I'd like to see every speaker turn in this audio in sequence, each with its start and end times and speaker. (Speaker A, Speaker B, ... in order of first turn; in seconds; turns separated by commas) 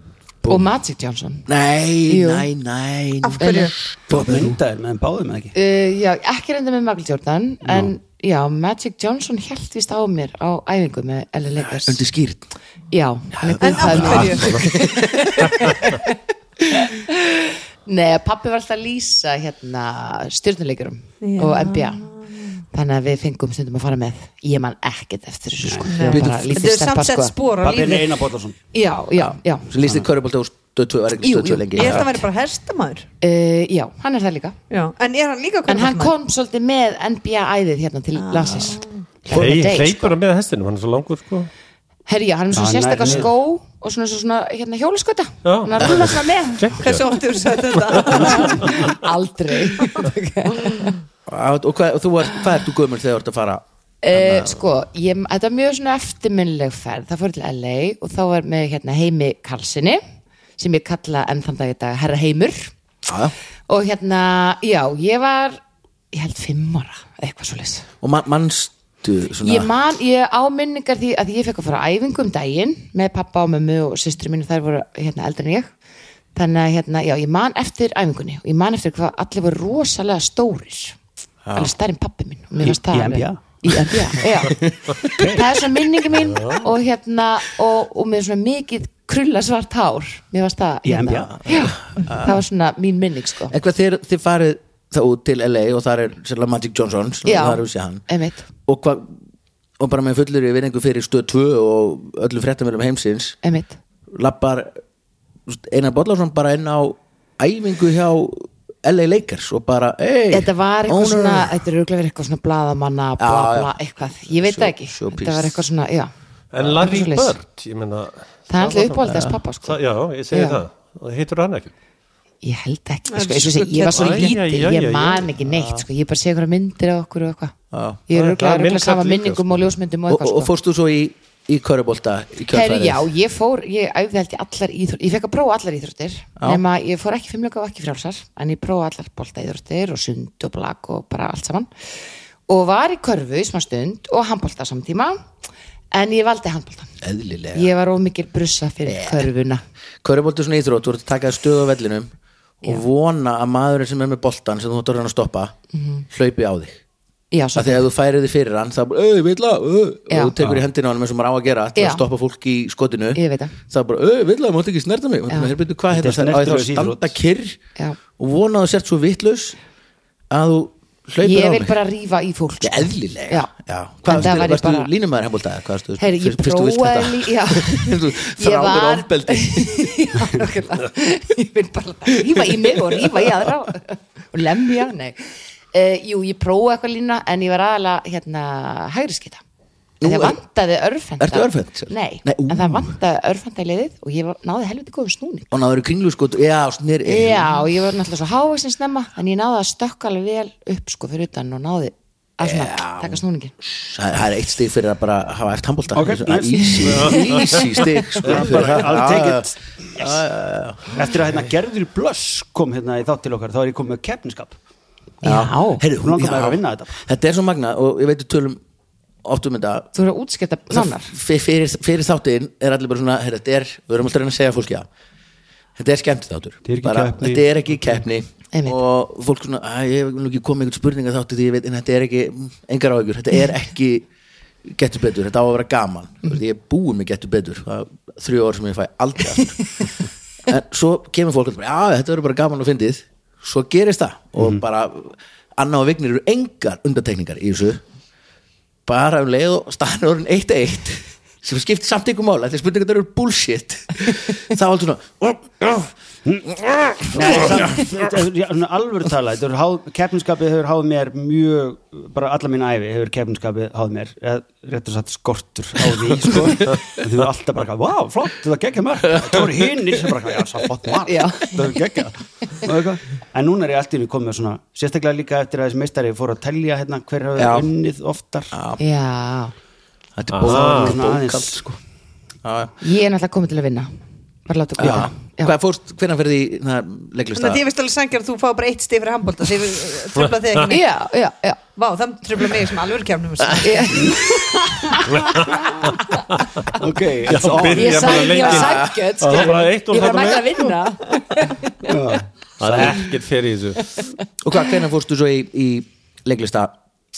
Speaker A: 0.5-1.4, Speaker B: 1.5-4.5, Speaker A: 2.1-2.5, Speaker C: 3.2-3.7, Speaker A: 3.4-3.7, Speaker D: 4.1-5.5, Speaker A: 5.5-12.0, Speaker D: 7.6-7.9, Speaker B: 11.6-12.5, Speaker A: 12.9-16.1, Speaker B: 13.4-15.7, Speaker C: 13.6-14.5, Speaker A: 16.7-27.3, Speaker C: 21.2-22.3, Speaker D: 25.6-26.1, Speaker C: 25.9-28.1, Speaker B: 26.0-26.6, Speaker D: 27.6-28.6, Speaker A: 28.7-29.7, Speaker B: 29.1-32.1, Speaker D: 29.8-30.1, Speaker A: 31.2-32.1, Speaker C: 31.7-33.0, Speaker A: 33.2-34.6, Speaker C: 34.7-36.1, Speaker A: 35.7-40.1, Speaker C: 38.1-39.1, Speaker E: 39.3-41.5, Speaker A: 42.1-46.7, Speaker D: 42.5-43.3, Speaker E: 45.4-47.1, Speaker C: 46.8-48.8, Speaker E: 47.7-48.9, Speaker A: 48.1-50.9, Speaker B: 51.3-54.6, Speaker A: 54.0-60.0, Speaker A: 60.6-62.7, Speaker B: 63.0-63.3, Speaker A: 63.7-65.6, Speaker A: 66.1-67.9, Speaker B: 68.0-69.7, Speaker A: 69.4-75.7, Speaker A: 76.3-81.0, Speaker B: 81.4-81.7, Speaker A: 81.5-93.5, Speaker D: 82.6-84.2, Speaker B: 84.5-85.0, Speaker D: 85.0-85.5, Speaker E: 86.2-86.6, Speaker D: 90.8-91.3, Speaker B: 91.2-92.4, Speaker B: 93.5-99.2, Speaker A: 97.2-98.5, Speaker B: 99.8-103.4, Speaker A: 103.4-103.8, Speaker B: 104.1-104.8, Speaker B: 105.5-111.6, Speaker A: 110.3-116.1, Speaker B: 113.2-115.6, Speaker E: 116.5-121.7, Speaker A: 116.8-117.4, Speaker A: 118.5-119.8, Speaker B: 119.0-119.4, Speaker A: 120.3-120.6, Speaker A: 122.4-127.5, Speaker C: 123.1-124.3, Speaker E: 123.9-125.3, Speaker B: 125.5-125.8, Speaker B: 127.7-128.0, Speaker A: 128.1-130.5, Speaker E: 128.1-129.8, Speaker B: 130.1-133.1, Speaker A: 132.5-141.7, Speaker A: 142.5-145.2, Speaker A: 145.9-146.9, Speaker B: 147.0-147.7, Speaker A: 147.5-149.6, Speaker B: 148.8-149.3, Speaker B: 150.0-152.1, Speaker B: 152.6-155.5, Speaker A: 155.7-156.0, Speaker B: 156.1-156.8, Speaker A: 157.3-157.8, Speaker B: 157.5-167.6, Speaker A: 161.8-162.0, Speaker A: 163.1-163.6, Speaker D: 165.9-167.1, Speaker B: 168.2-169.6, Speaker B: 170.3-171.8, Speaker A: 171.2-173.5, Speaker B: 172.6-180.0, Speaker A: 174.1-174.9, Speaker A: 176.0-189.4, Speaker B: 182.2-183.5, Speaker B: 190.0-190.4, Speaker A: 190.0-195.5, Speaker B: 191.2-193.0, Speaker B: 195.5-197.6, Speaker A: 197.0-203.5, Speaker B: 202.4-211.0, Speaker D: 205.9-207.0, Speaker A: 206.8-208.1, Speaker E: 206.8-207.6, Speaker D: 208.1-210.2, Speaker E: 208.3-208.7, Speaker D: 210.9-214.6, Speaker A: 215.2-215.8, Speaker B: 215.2-218.6, Speaker D: 216.0-217.0, Speaker B: 219.2-219.9, Speaker A: 219.9-221.1, Speaker B: 220.7-224.9, Speaker B: 225.8-234.1, Speaker D: 226.6-227.4, Speaker B: 234.6-239.8, Speaker B: 240.4-247.8, Speaker D: 244.4-244.6, Speaker B: 248.8-255.9, Speaker B: 257.0-257.6, Speaker D: 257.1-278.6, Speaker A: 271.1-271.6, Speaker B: 277.4-277.7, Speaker B: 278.5-278.8, Speaker A: 278.8-279.5, Speaker B: 280.1-281.8, Speaker E: 280.3-281.0, Speaker D: 280.4-281.6, Speaker B: 282.4-282.7, Speaker A: 282.8-283.9, Speaker A: 284.5-285.5, Speaker B: 284.8-287.6, Speaker D: 284.8-285.1, Speaker C: 287.4-290.9, Speaker A: 290.7-291.6, Speaker C: 291.8-294.4, Speaker A: 293.6-295.8, Speaker D: 293.9-294.2, Speaker E: 295.1-296.5, Speaker D: 296.7-298.6, Speaker E: 297.2-300.7, Speaker A: 297.7-301.9, Speaker B: 298.5-299.1, Speaker D: 301.8-303.1, Speaker E: 302.6-304.0, Speaker B: 304.4-306.7